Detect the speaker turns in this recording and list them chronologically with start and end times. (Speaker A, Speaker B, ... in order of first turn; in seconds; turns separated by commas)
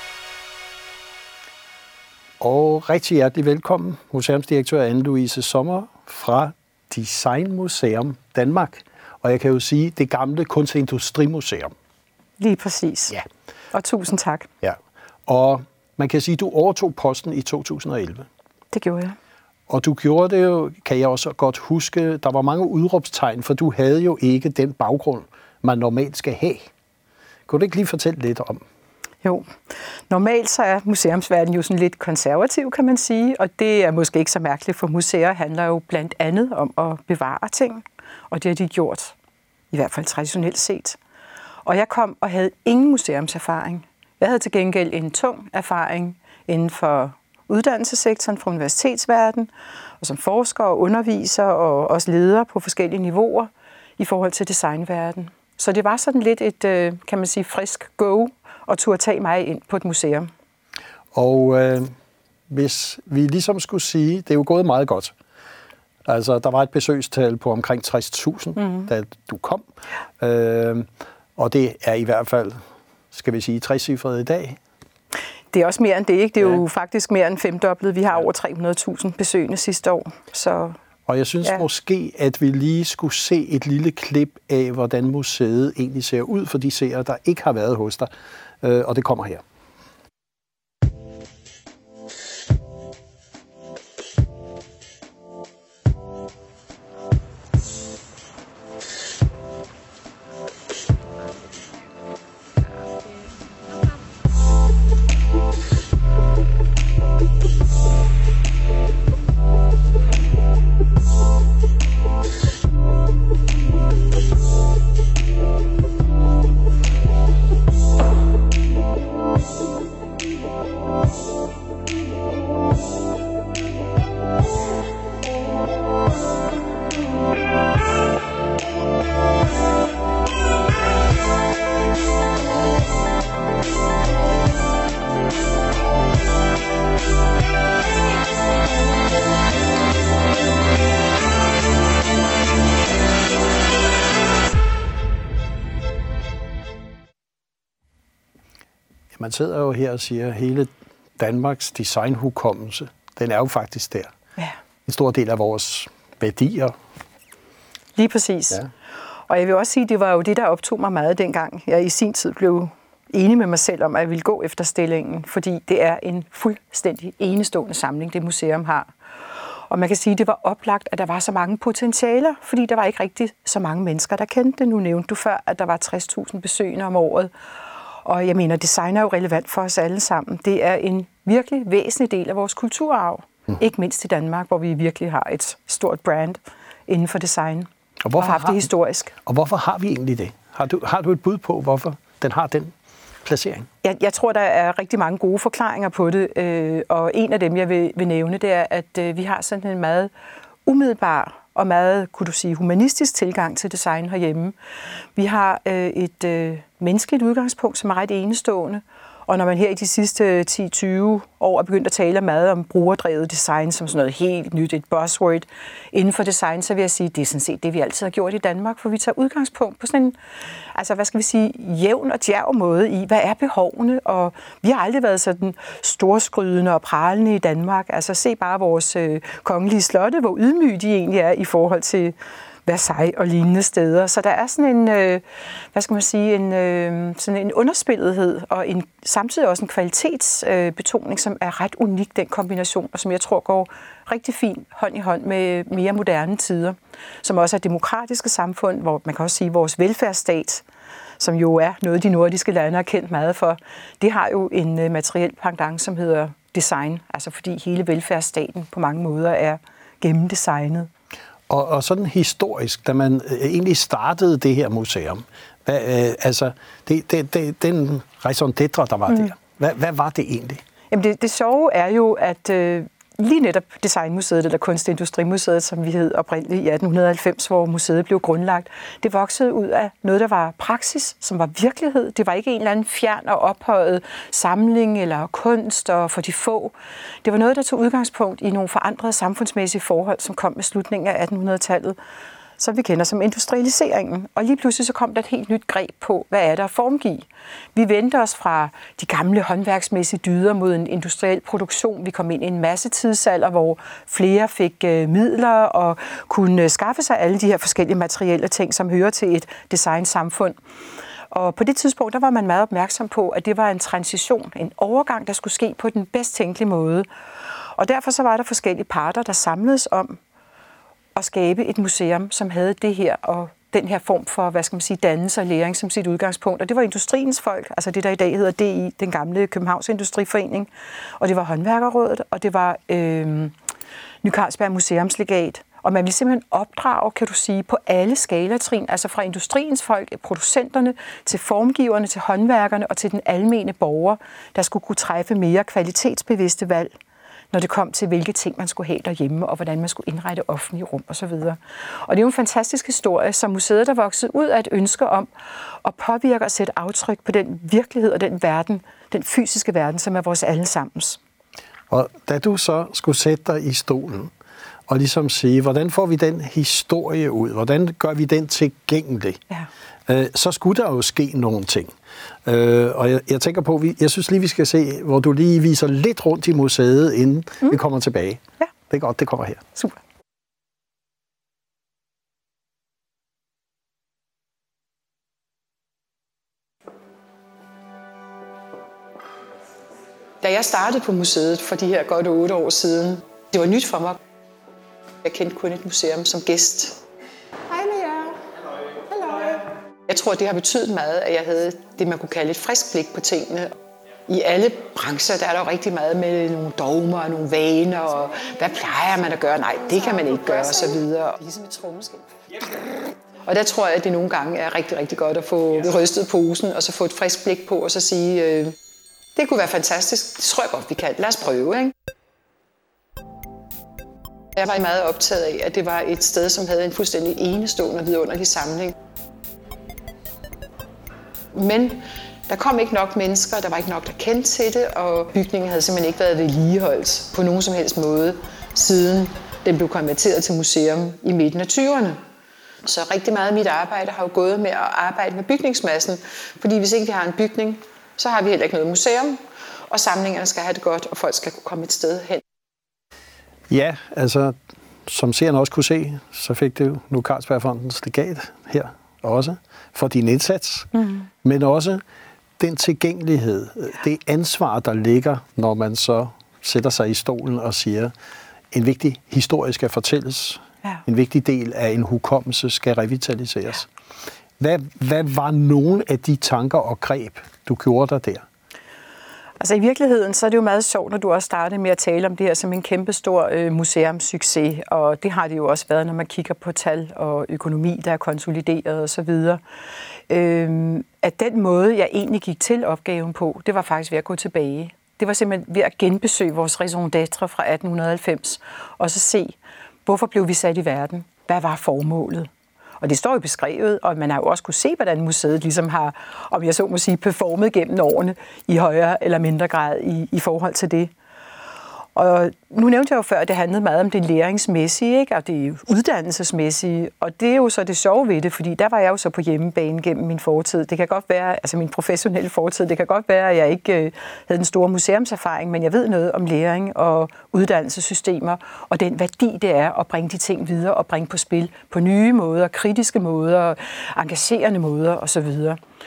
Speaker A: 2.4-11.7, Speaker B: 12.4-14.5, Speaker A: 14.6-18.3, Speaker B: 18.7-19.1, Speaker A: 19.7-26.7, Speaker A: 27.5-28.6, Speaker B: 29.2-29.5, Speaker B: 30.1-39.1, Speaker B: 39.7-41.0, Speaker B: 41.6-49.5, Speaker B: 50.0-60.3, Speaker A: 61.1-61.9, Speaker A: 62.5-65.1, Speaker A: 66.0-69.7, Speaker B: 68.6-68.9, Speaker A: 70.2-72.6, Speaker A: 73.1-74.6, Speaker B: 75.5-80.8, Speaker A: 81.1-88.1, Speaker A: 88.6-89.4, Speaker A: 149.1-154.1, Speaker A: 154.8-156.7, Speaker B: 157.9-158.7, Speaker B: 159.3-168.9, Speaker B: 169.7-177.3, Speaker B: 178.0-189.1, Speaker A: 188.0-188.7, Speaker A: 189.2-193.7, Speaker B: 193.8-200.1, Speaker B: 200.7-204.5, Speaker B: 205.2-220.2, Speaker B: 220.7-232.1, Speaker B: 232.7-250.6, Speaker B: 251.2-260.9, Speaker A: 261.5-270.6, Speaker B: 270.9-292.0, Speaker B: 292.6-310.6, Speaker B: 311.3-317.1, Speaker B: 317.8-320.2, Speaker B: 321.1-333.5, Speaker B: 334.2-346.9, Speaker B: 347.5-355.3, Speaker B: 355.8-361.2, Speaker A: 361.9-364.3, Speaker A: 364.9-369.4, Speaker A: 370.1-371.9, Speaker A: 372.4-379.7, Speaker B: 390.4-394.2, Speaker B: 395.2-397.0, Speaker B: 397.7-398.4, Speaker B: 399.1-403.7, Speaker B: 404.3-418.7, Speaker B: 419.4-421.9, Speaker B: 424.5-428.9, Speaker B: 431.5-442.2, Speaker B: 442.8-449.4, Speaker B: 449.9-452.4, Speaker A: 453.7-460.9, Speaker B: 461.0-461.2, Speaker A: 461.4-462.0, Speaker A: 462.6-468.1, Speaker A: 468.7-473.9, Speaker A: 474.6-478.4, Speaker B: 479.6-489.6, Speaker B: 490.3-502.5, Speaker B: 503.0-511.1, Speaker B: 512.1-535.8